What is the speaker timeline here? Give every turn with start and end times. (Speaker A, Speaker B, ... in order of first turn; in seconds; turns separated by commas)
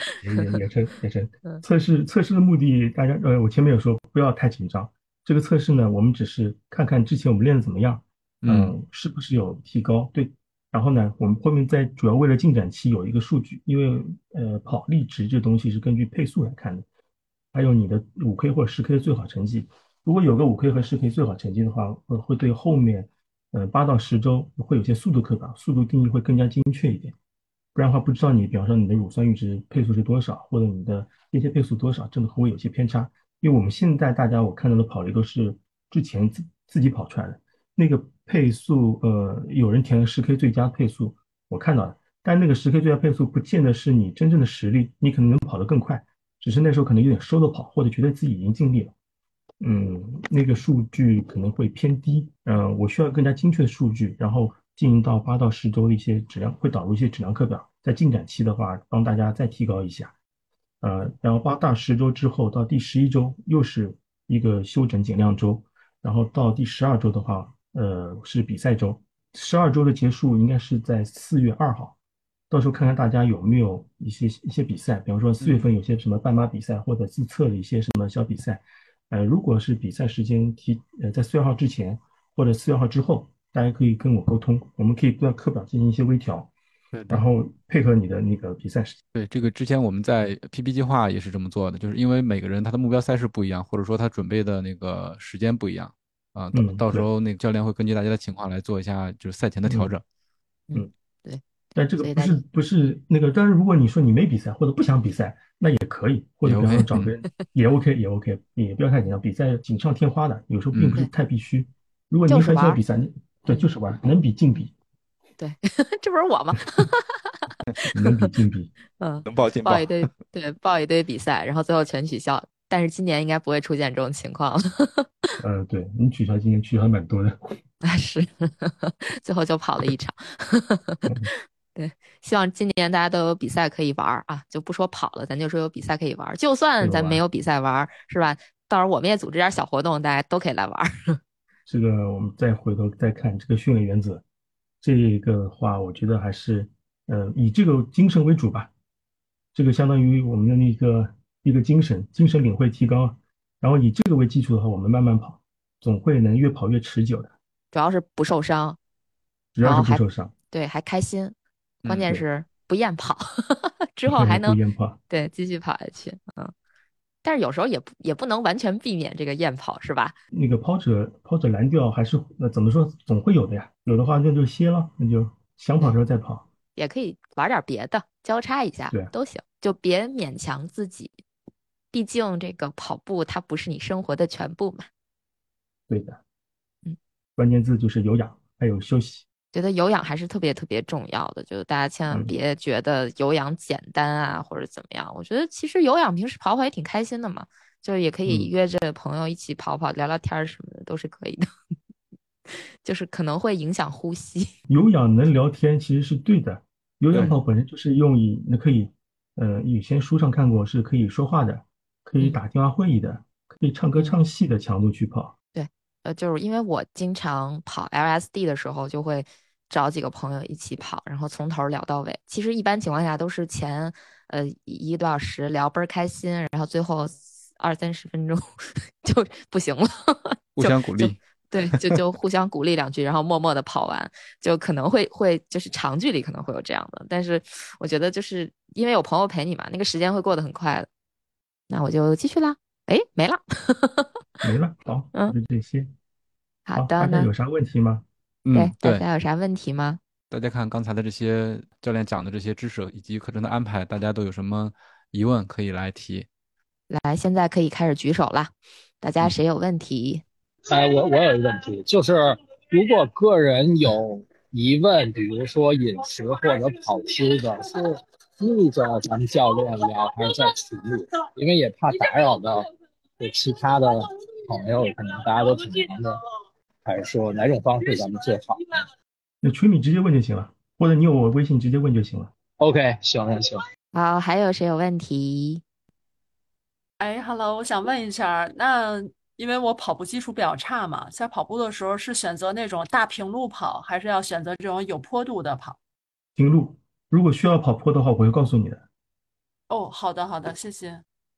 Speaker A: 0.2-16.9, Speaker B: 8.4-8.7, Speaker A: 17.5-27.1, Speaker A: 27.8-48.9, Speaker A: 49.6-60.1, Speaker A: 60.8-72.0, Speaker A: 72.5-86.5, Speaker B: 75.4-75.7, Speaker B: 86.9-87.2, Speaker A: 87.1-89.0, Speaker B: 89.2-100.0, Speaker A: 96.5-97.1, Speaker A: 99.7-99.9, Speaker C: 100.7-101.4, Speaker A: 101.8-114.7, Speaker C: 102.0-102.4, Speaker B: 106.5-107.1, Speaker C: 112.3-112.8, Speaker C: 115.4-117.3, Speaker A: 117.9-118.7, Speaker C: 119.0-125.1, Speaker B: 119.3-120.1, Speaker A: 125.4-127.4, Speaker C: 127.8-131.1, Speaker C: 131.8-141.2, Speaker A: 136.8-137.2, Speaker A: 141.7-144.2, Speaker A: 144.8-148.7, Speaker A: 149.5-157.3, Speaker C: 157.7-158.8, Speaker A: 159.6-160.3, Speaker C: 159.6-166.5, Speaker B: 161.8-162.1, Speaker A: 164.1-165.0, Speaker C: 167.2-170.2, Speaker A: 170.3-176.4, Speaker C: 176.8-181.2, Speaker C: 181.9-184.9, Speaker A: 185.9-186.2, Speaker A: 187.4-189.2, Speaker C: 189.5-201.5, Speaker C: 202.8-204.5, Speaker A: 204.7-215.3, Speaker C: 215.6-228.5, Speaker C: 229.0-240.9, Speaker B: 230.6-231.2, Speaker C: 241.7-244.1, Speaker A: 244.4-245.9, Speaker C: 246.7-247.3, Speaker A: 246.8-248.1, Speaker B: 248.4-249.0, Speaker C: 248.5-250.0, Speaker B: 250.3-256.3, Speaker C: 256.9-260.2, Speaker D: 260.7-272.7, Speaker D: 273.2-276.2, Speaker D: 276.9-278.8, Speaker A: 279.4-282.3, Speaker D: 282.6-283.6, Speaker C: 283.9-285.6, Speaker E: 287.0-295.8, Speaker A: 296.4-298.8, Speaker E: 299.7-301.0